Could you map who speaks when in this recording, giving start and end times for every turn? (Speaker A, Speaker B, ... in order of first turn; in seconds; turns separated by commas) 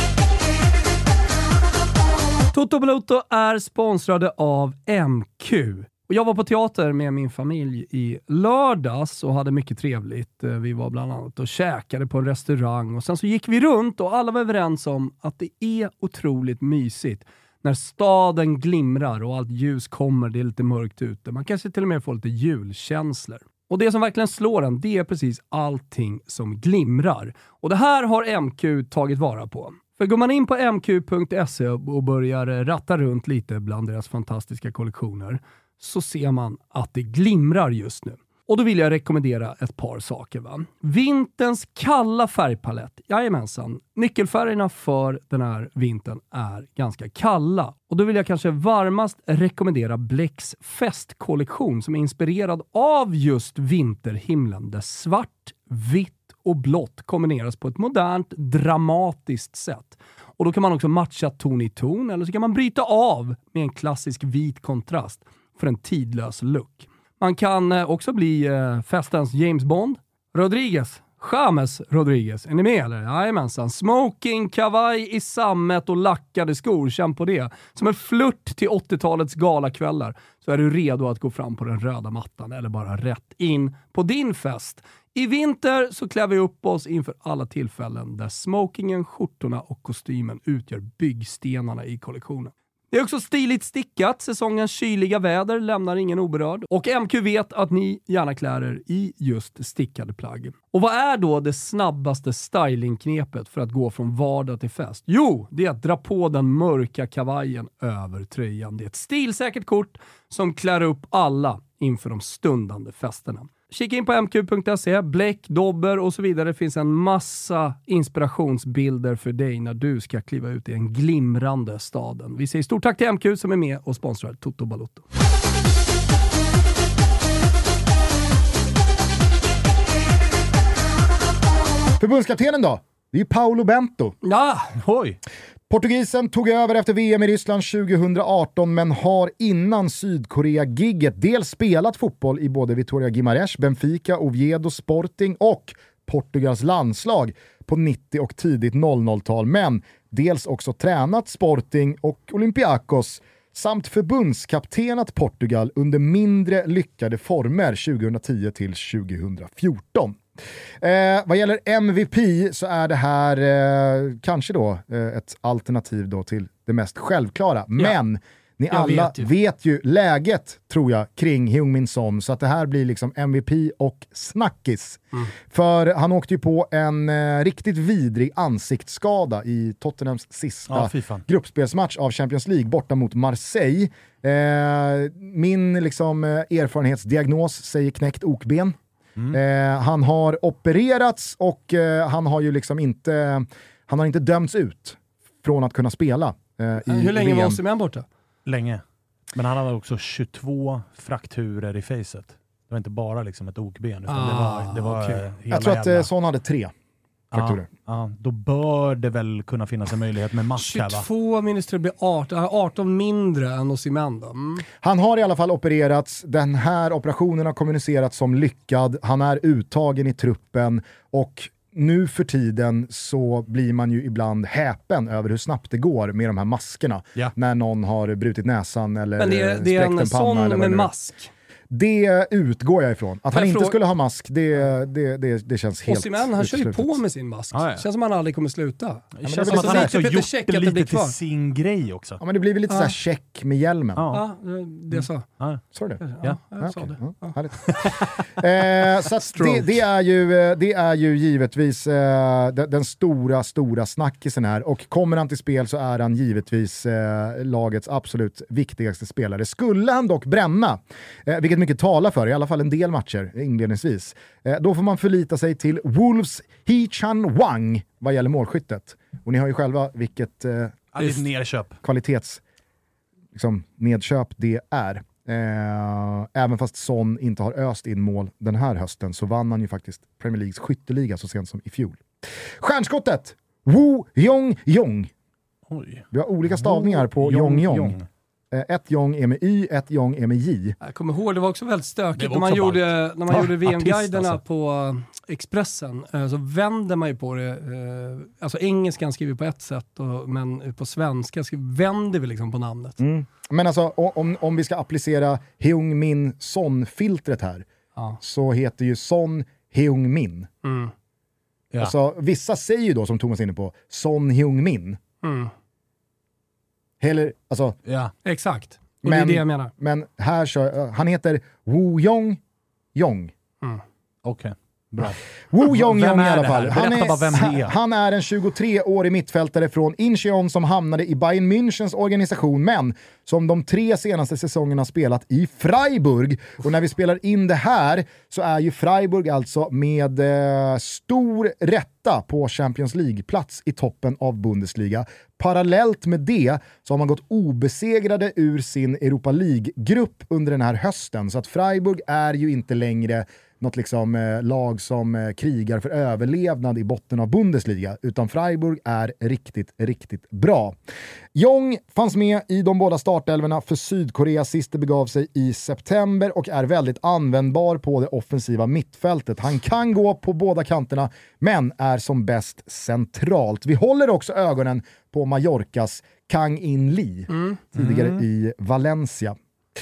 Speaker A: 2.5-125.0, Speaker B: 132.0-134.2, Speaker A: 134.2-134.7, Speaker C: 134.8-135.2, Speaker B: 135.7-160.2, Speaker B: 160.8-188.8, Speaker A: 168.7-169.3, Speaker C: 180.7-181.2, Speaker B: 189.3-197.6, Speaker A: 196.8-198.1, Speaker C: 198.4-198.8, Speaker C: 199.3-206.1, Speaker A: 204.1-205.2, Speaker B: 205.5-206.7, Speaker B: 207.3-207.7, Speaker C: 207.3-211.1, Speaker A: 210.6-214.6, Speaker B: 214.8-230.9, Speaker A: 229.2-231.3, Speaker B: 231.7-237.0, Speaker A: 233.3-233.8, Speaker A: 235.9-241.1, Speaker C: 237.5-237.8, Speaker C: 239.2-242.2, Speaker B: 239.2-239.9, Speaker B: 242.2-244.0, Speaker A: 242.7-242.9, Speaker C: 243.9-244.2, Speaker A: 244.1-245.2, Speaker C: 244.9-245.6, Speaker B: 245.7-246.0, Speaker A: 246.0-247.4, Speaker B: 246.6-270.9, Speaker C: 247.7-248.0, Speaker A: 249.1-249.7, Speaker C: 270.9-271.8, Speaker B: 271.8-272.4, Speaker B: 273.3-282.0, Speaker B: 282.6-285.1, Speaker C: 285.7-288.1, Speaker B: 286.1-288.0, Speaker B: 288.5-290.8, Speaker A: 290.8-303.0, Speaker C: 292.1-294.4, Speaker B: 303.0-307.6, Speaker B: 308.2-310.5, Speaker A: 310.6-310.9, Speaker B: 311.8-315.0, Speaker A: 315.2-315.5, Speaker B: 317.0-317.8, Speaker C: 317.8-318.1, Speaker A: 318.2-319.7, Speaker B: 319.0-322.4, Speaker B: 322.9-323.3, Speaker C: 324.2-327.7, Speaker B: 325.5-360.8, Speaker B: 361.3-379.4, Speaker A: 377.3-377.6, Speaker C: 377.7-378.2